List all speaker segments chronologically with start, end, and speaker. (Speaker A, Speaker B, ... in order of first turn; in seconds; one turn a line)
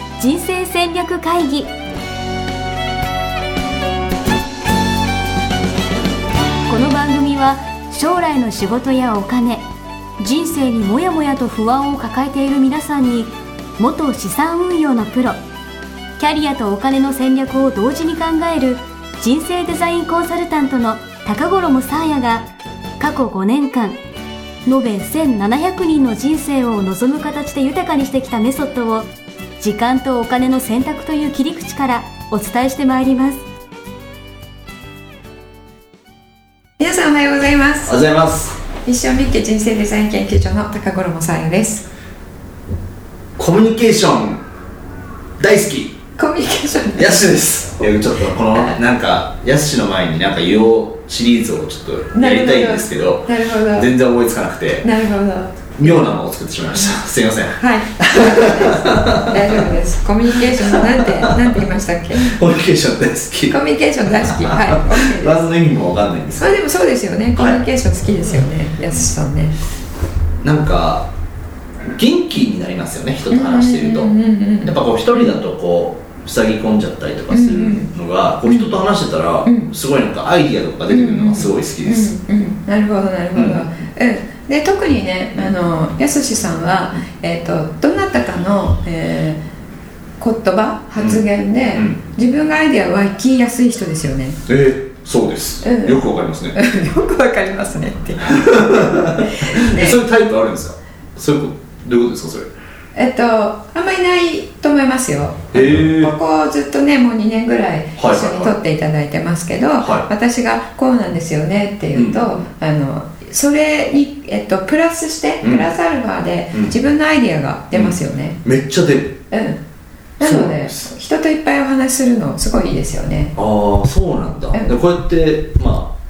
Speaker A: 0.2-1.7
Speaker A: 6.7-9.6
Speaker A: 10.2-15.4
Speaker A: 16.2-22.4
Speaker A: 23.0-24.0
Speaker A: 24.7-29.1
Speaker A: 29.6-33.4
Speaker B: 36.8-38.0
Speaker C: 37.9-38.6
Speaker B: 38.8-41.9
Speaker C: 43.4-44.4
Speaker C: 45.4-46.0
Speaker B: 46.2-47.3
Speaker C: 47.0-54.9
Speaker B: 48.5-48.8
Speaker B: 52.1-53.9
Speaker B: 54.8-56.2
Speaker C: 55.8-59.7
Speaker B: 57.6-62.4
Speaker C: 60.3-61.6
Speaker C: 62.1-66.6
Speaker B: 63.5-65.5
Speaker B: 66.4-69.6
Speaker C: 67.4-67.6
Speaker C: 70.4-71.1
Speaker C: 71.9-82.1
Speaker B: 73.3-75.4
Speaker B: 77.3-77.9
Speaker B: 78.5-78.7
Speaker B: 79.5-79.7
Speaker B: 80.9-89.4
Speaker C: 83.3-83.7
Speaker B: 90.2-94.4
Speaker C: 91.0-91.2
Speaker C: 91.7-92.0
Speaker C: 94.5-96.6
Speaker B: 95.6-96.0
Speaker B: 96.5-100.0
Speaker C: 98.2-102.5
Speaker B: 103.0-118.4
Speaker C: 105.5-106.1
Speaker C: 108.0-108.6
Speaker C: 109.8-110.1
Speaker C: 112.0-112.2
Speaker C: 115.4-115.7
Speaker C: 117.7-119.2
Speaker B: 119.3-119.6
Speaker B: 120.2-123.3
Speaker C: 120.2-120.9
Speaker C: 123.3-125.9